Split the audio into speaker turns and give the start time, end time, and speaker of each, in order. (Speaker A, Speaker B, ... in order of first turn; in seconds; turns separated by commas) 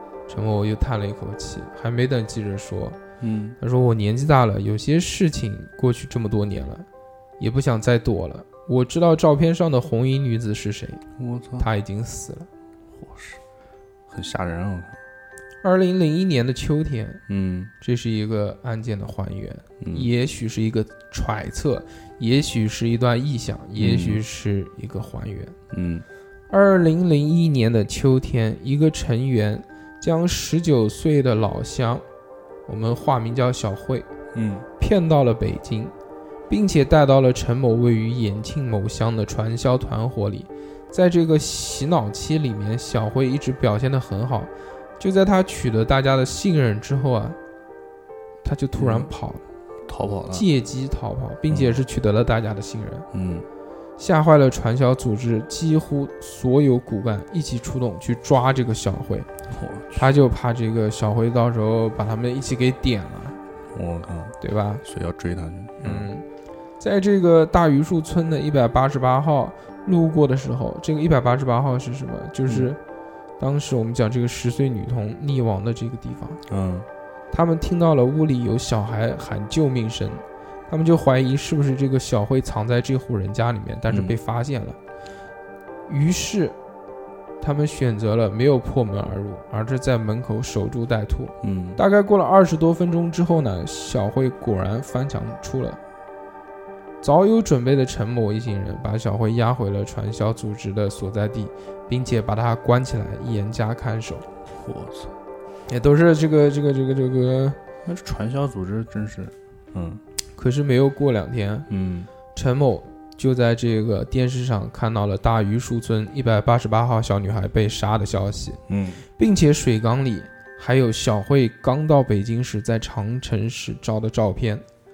Speaker A: 0.3-3.0, Speaker B: 3.2-3.6, Speaker A: 3.6-6.9, Speaker A: 7.4-11.0, Speaker B: 11.2-11.7, Speaker A: 11.6-12.5, Speaker B: 13.0-13.4, Speaker B: 14.1-15.0, Speaker A: 15.6-17.2, Speaker B: 17.3-17.7, Speaker A: 17.8-25.6, Speaker B: 19.8-20.1, Speaker B: 23.8-24.2, Speaker B: 25.7-26.1, Speaker A: 26.5-32.0, Speaker A: 32.7-34.1, Speaker B: 34.3-34.7, Speaker A: 34.8-35.9, Speaker A: 36.5-47.4, Speaker A: 48.4-49.4, Speaker B: 48.8-49.1, Speaker B: 49.9-50.5, Speaker A: 50.3-53.1, Speaker B: 51.5-51.8, Speaker B: 53.1-53.5, Speaker A: 54.0-59.3, Speaker B: 59.5-60.0, Speaker A: 59.9-63.4, Speaker B: 63.7-66.1, Speaker A: 64.4-64.8, Speaker A: 65.8-66.3, Speaker A: 66.8-72.8, Speaker A: 73.4-76.4, Speaker B: 76.5-76.9, Speaker A: 77.3-84.8, Speaker B: 83.9-84.2, Speaker A: 85.9-86.6, Speaker A: 87.4-95.8, Speaker B: 91.4-91.8, Speaker A: 97.0-104.3, Speaker B: 104.5-105.1, Speaker A: 105.7-107.6, Speaker B: 107.8-110.0, Speaker A: 110.4-111.7, Speaker B: 111.7-112.1, Speaker A: 112.3-118.6, Speaker B: 118.7-119.0, Speaker A: 119.2-124.7